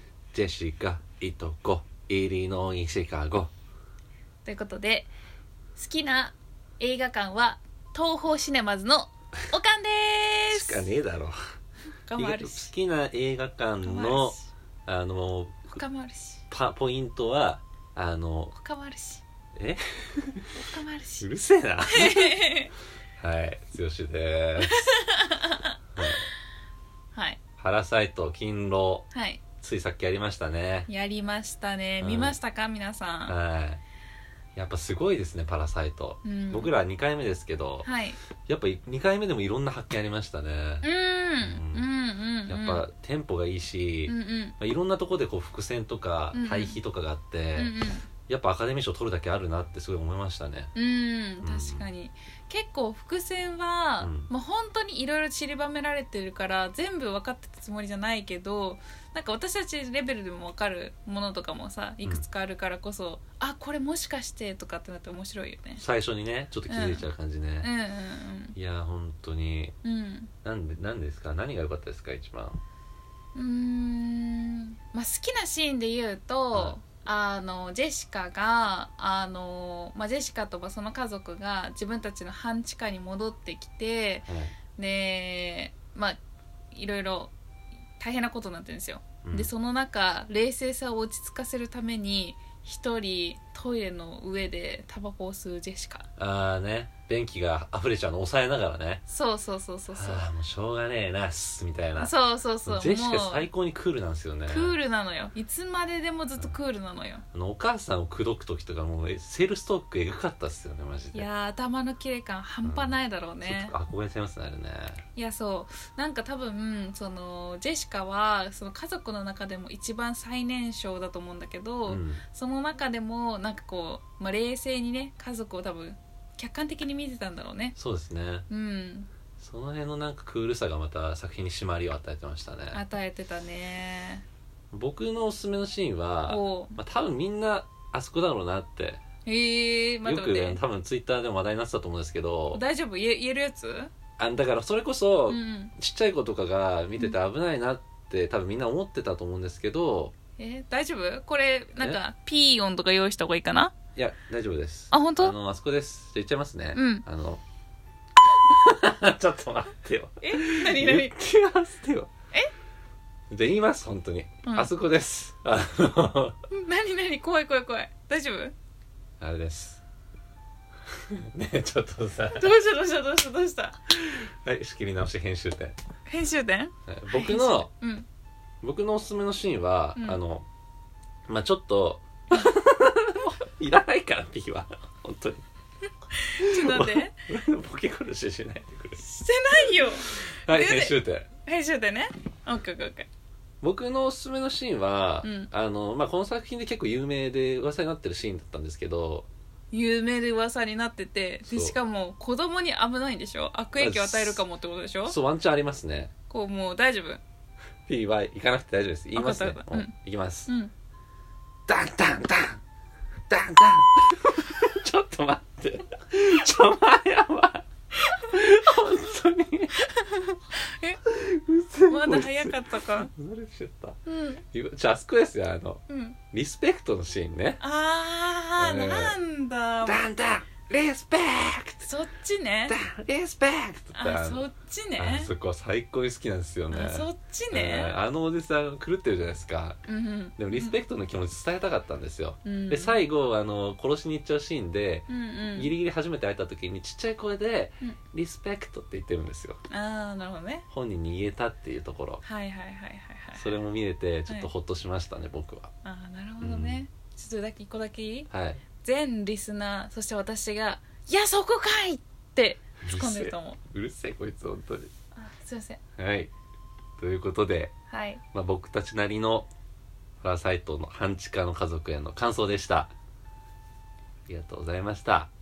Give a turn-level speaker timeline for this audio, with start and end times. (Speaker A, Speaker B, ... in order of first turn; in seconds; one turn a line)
Speaker A: 0.3-3.5
Speaker B: 4.5-5.1
Speaker B: 5.8-10.9
Speaker A: 10.5-11.4
Speaker B: 12.1-12.7
Speaker A: 12.2-15.8
Speaker B: 13.8-14.5
Speaker B: 15.7-16.4
Speaker A: 16.5-18.5
Speaker B: 18.5-19.2
Speaker A: 19.6-20.6
Speaker B: 20.6-21.3
Speaker A: 21.2-22.4
Speaker B: 21.9-22.7
Speaker A: 23.2-24.8
Speaker B: 24.6-26.2
Speaker A: 26.0-26.2
Speaker A: 27.6-29.1
Speaker B: 29.1-29.4
Speaker A: 29.6-30.9
Speaker B: 30.9-33.4
Speaker A: 32.0-32.4
Speaker A: 33.3-33.8
Speaker A: 34.6-37.9
Speaker B: 36.2-36.7
Speaker B: 37.9-38.2
Speaker A: 38.5-40.9
Speaker B: 40.8-42.9
Speaker A: 41.4-41.9
Speaker A: 42.5-47.7
Speaker B: 44.1-44.6
Speaker B: 46.3-46.8
Speaker B: 47.6-48.1
Speaker A: 48.3-50.7
Speaker B: 50.8-65.8
Speaker A: 51.4-51.9
Speaker A: 54.0-54.3
Speaker A: 65.8-67.7
Speaker B: 66.7-67.1
Speaker B: 67.6-68.6
Speaker A: 68.6-69.8
Speaker B: 69.8-70.3
Speaker A: 70.4-72.6
Speaker B: 73.3-86.2
Speaker A: 76.5-76.8
Speaker A: 84.3-84.6
Speaker B: 86.7-87.3
Speaker B: 88.0-96.1
Speaker A: 89.2-89.5
Speaker A: 96.2-99.0
Speaker B: 99.1-100.2
Speaker A: 99.9-102.1
Speaker B: 102.0-103.5
Speaker A: 102.7-104.8
Speaker B: 104.5-107.2
Speaker A: 107.3-111.3
Speaker B: 111.1-113.8
Speaker A: 112.6-115.0
Speaker B: 115.2-127.8
Speaker A: 121.9-122.2
Speaker A: 127.8-128.5
Speaker B: 128.5-129.1
Speaker A: 129.4-132.8
Speaker B: 132.7-134.2
Speaker A: 134.7-139.0
Speaker B: 136.3-136.8
Speaker B: 139.3-140.6
Speaker A: 140.0-142.6
Speaker B: 142.5-143.9
Speaker A: 144.2-150.1
Speaker B: 145.3-145.7
Speaker B: 150.4-153.7
Speaker A: 153.9-157.4
Speaker B: 154.9-155.3
Speaker B: 156.7-157.0
Speaker A: 158.3-162.1
Speaker B: 160.2-161.2
Speaker A: 163.3-166.4
Speaker B: 166.5-168.5
Speaker A: 169.2-169.8
Speaker A: 171.1-172.6
Speaker B: 172.4-173.8
Speaker A: 173.9-175.8
Speaker B: 176.1-178.1
Speaker A: 176.9-177.7
Speaker A: 178.6-180.5
Speaker A: 181.3-185.4
Speaker B: 186.2-187.1
Speaker A: 186.4-189.0
Speaker B: 189.0-193.1
Speaker A: 189.7-191.3
Speaker A: 193.6-199.3
Speaker B: 195.2-195.5
Speaker B: 199.7-205.2
Speaker A: 201.5-201.8
Speaker A: 203.8-204.4
Speaker A: 205.1-206.1
Speaker B: 206.3-207.2
Speaker A: 207.9-210.5
Speaker B: 209.2-209.9
Speaker B: 210.5-210.7
Speaker A: 211.7-212.6
Speaker A: 213.3-217.7
Speaker A: 218.2-219.8
Speaker B: 219.8-221.0
Speaker A: 221.1-224.0
Speaker B: 221.9-223.1
Speaker B: 224.1-224.4
Speaker A: 224.5-227.6
Speaker B: 225.9-226.2
Speaker B: 227.6-230.0
Speaker A: 228.6-229.2
Speaker A: 229.8-231.9
Speaker B: 231.8-232.8
Speaker A: 232.7-234.5
Speaker B: 233.9-235.3
Speaker A: 235.0-239.8
Speaker B: 236.7-237.9
Speaker B: 239.9-240.8
Speaker A: 240.4-249.6
Speaker B: 242.4-243.0
Speaker B: 245.1-245.7
Speaker B: 249.7-250.7
Speaker A: 250.7-252.2
Speaker B: 252.2-253.6
Speaker A: 253.4-255.7
Speaker B: 255.8-263.6
Speaker A: 256.4-256.8
Speaker A: 258.3-258.6
Speaker A: 262.8-264.9
Speaker B: 265.1-265.8
Speaker A: 266.0-266.3
Speaker A: 267.0-267.7
Speaker B: 267.9-268.2
Speaker A: 268.3-269.5
Speaker A: 270.2-272.9
Speaker A: 274.3-275.3